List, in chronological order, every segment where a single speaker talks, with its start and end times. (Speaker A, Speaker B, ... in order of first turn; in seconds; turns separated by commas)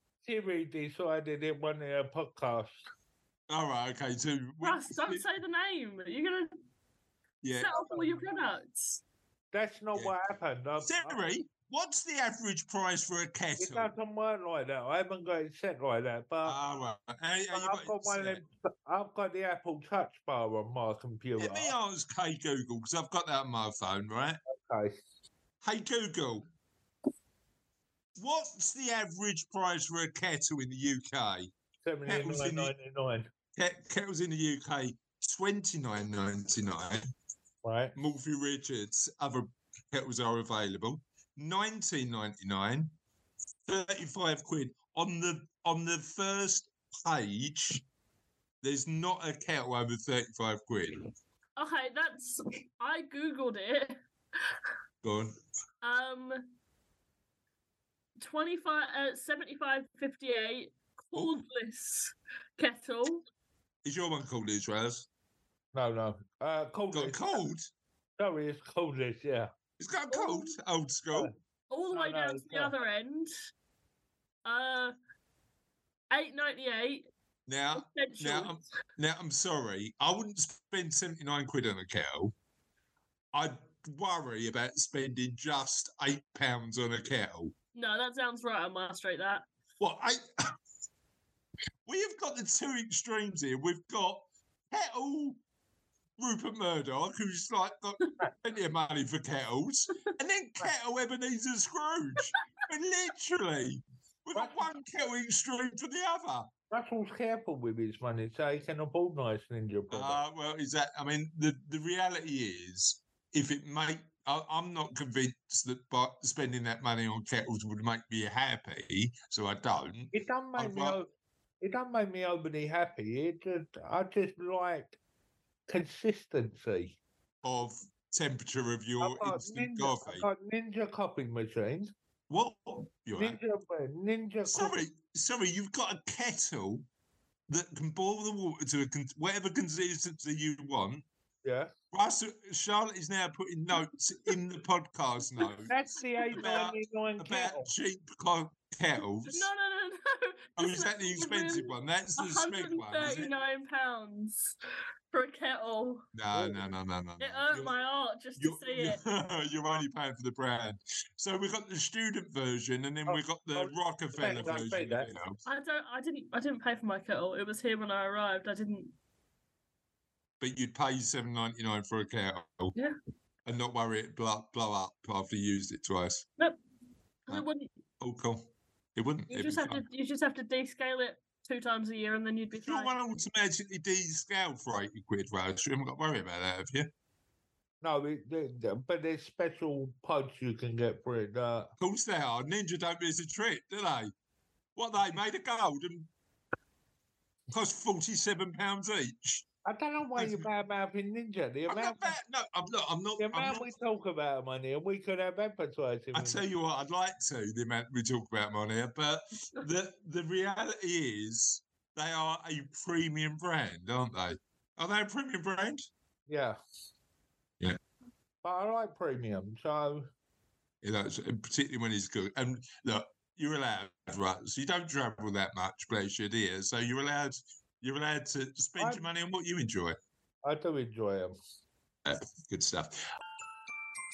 Speaker A: 0.2-2.8, Speaker B: 3.5-5.2, Speaker C: 4.6-6.5, Speaker B: 7.4-7.7, Speaker C: 7.6-9.0, Speaker A: 7.7-8.3, Speaker A: 9.5-11.2, Speaker B: 10.8-13.9, Speaker A: 13.6-16.6, Speaker B: 16.4-18.4, Speaker A: 17.5-21.7, Speaker B: 21.4-24.4, Speaker A: 24.5-25.0, Speaker B: 25.6-26.4, Speaker B: 28.2-31.5, Speaker A: 31.9-33.3, Speaker B: 32.1-32.7, Speaker B: 33.6-37.0, Speaker A: 37.6-37.9, Speaker B: 38.0-42.9, Speaker B: 43.7-47.9, Speaker B: 48.6-51.1, Speaker C: 51.6-54.0, Speaker B: 55.0-55.4, Speaker C: 55.8-56.5, Speaker C: 58.2-63.2, Speaker B: 63.9-65.1, Speaker A: 65.7-67.4, Speaker B: 66.9-67.7, Speaker A: 68.2-69.5, Speaker B: 69.8-71.3, Speaker C: 70.1-70.5, Speaker C: 71.7-73.3, Speaker A: 71.9-72.7, Speaker C: 74.5-75.0, Speaker C: 76.1-77.1, Speaker B: 77.5-82.3, Speaker C: 77.7-78.5, Speaker B: 83.3-87.5, Speaker C: 87.8-89.5, Speaker B: 89.8-90.5, Speaker B: 91.9-95.4, Speaker B: 96.2-106.5, Speaker A: 104.3-104.7, Speaker A: 106.7-110.2, Speaker B: 109.9-121.0, Speaker A: 120.1-121.1, Speaker A: 121.6-125.0, Speaker A: 125.7-127.0, Speaker B: 127.4-130.2, Speaker A: 129.0-131.9, Speaker B: 132.3-133.4, Speaker A: 133.2-134.8, Speaker B: 134.5-136.9, Speaker B: 137.5-141.1, Speaker A: 141.4-141.7, Speaker B: 141.9-145.8, Speaker A: 145.7-147.7, Speaker B: 146.3-149.5, Speaker C: 149.2-154.6, Speaker B: 150.6-153.3, Speaker C: 155.1-156.1, Speaker B: 156.1-157.7, Speaker A: 156.3-156.6, Speaker C: 157.2-159.0, Speaker B: 158.4-165.4, Speaker A: 163.1-165.1, Speaker C: 165.5-168.9, Speaker B: 170.4-172.8, Speaker B: 173.5-176.2, Speaker C: 177.3-177.7, Speaker B: 178.0-179.9, Speaker C: 179.3-182.9, Speaker B: 182.6-186.9, Speaker A: 187.8-191.7, Speaker B: 191.8-194.1, Speaker B: 194.8-196.1, Speaker B: 197.5-199.4, Speaker A: 199.6-202.1, Speaker B: 200.2-200.5, Speaker B: 201.7-203.7, Speaker A: 203.2-206.4, Speaker B: 206.1-215.9, Speaker A: 216.3-216.6, Speaker A: 218.4-220.1, Speaker B: 220.8-230.0, Speaker A: 228.8-229.1, Speaker A: 230.4-231.3, Speaker B: 232.1-233.0